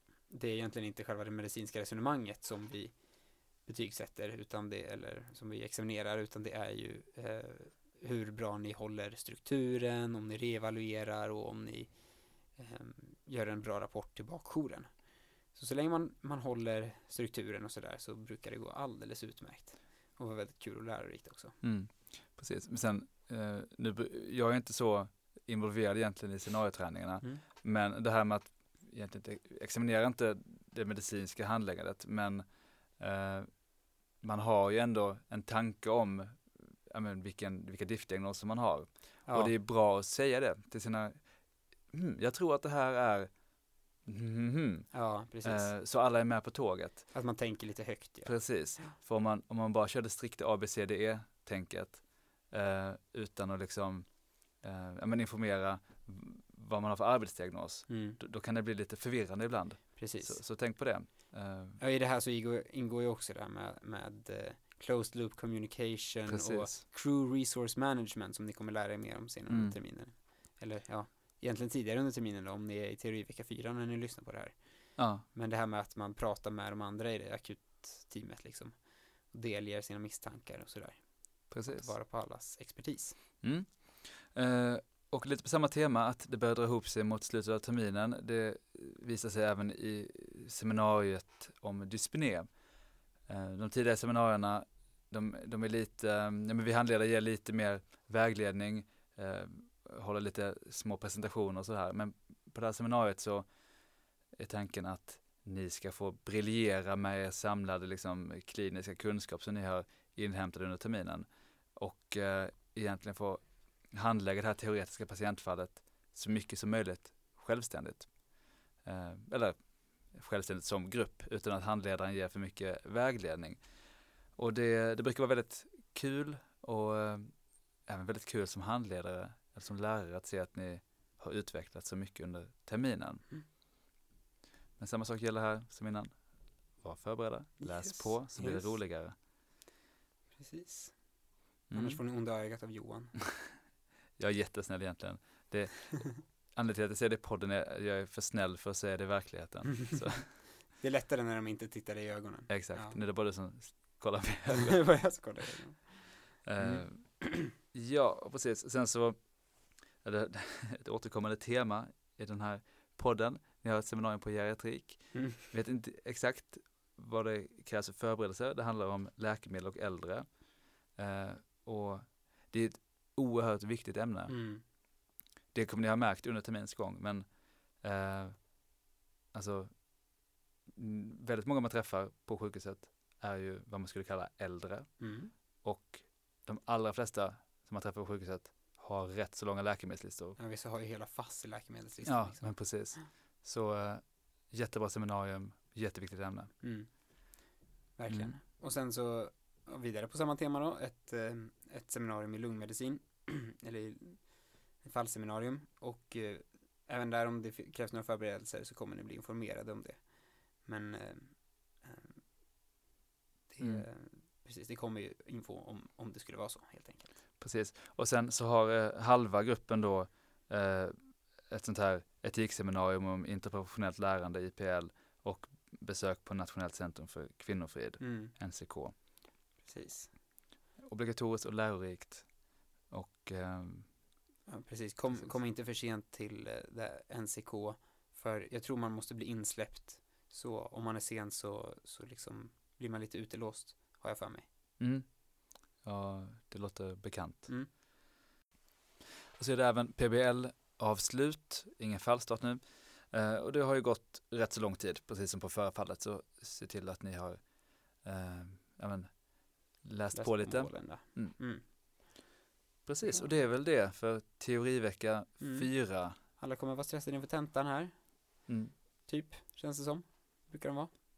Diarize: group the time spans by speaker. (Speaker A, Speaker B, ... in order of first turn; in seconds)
Speaker A: 0.3-21.6, 39.2-39.5, 44.9-45.7, 47.1-48.9, 57.9-58.2, 60.0-60.5, 61.8-83.2, 137.6-138.8, 140.3-143.2, 150.2-153.0, 154.5-157.5, 174.3-174.6, 185.0-185.3, 190.4-193.0, 196.6-212.2, 213.5-217.2, 228.0-228.3, 229.6-230.1, 234.5-244.5, 260.1-261.7, 263.0-263.4, 265.4-270.9
Speaker B: 21.6-47.1, 48.2-61.8, 66.2-66.8, 69.5-69.8, 75.0-75.2, 81.5-81.9, 83.4-133.3, 134.8-139.2, 141.7-142.0, 144.2-150.5, 152.5-154.9, 156.4-174.3, 175.5-178.7, 179.3-190.4, 192.0-196.5, 198.1-198.4, 213.6-213.8, 217.4-228.9, 230.9-233.9, 244.8-247.5, 249.4-261.4, 262.8-266.2, 268.5-268.7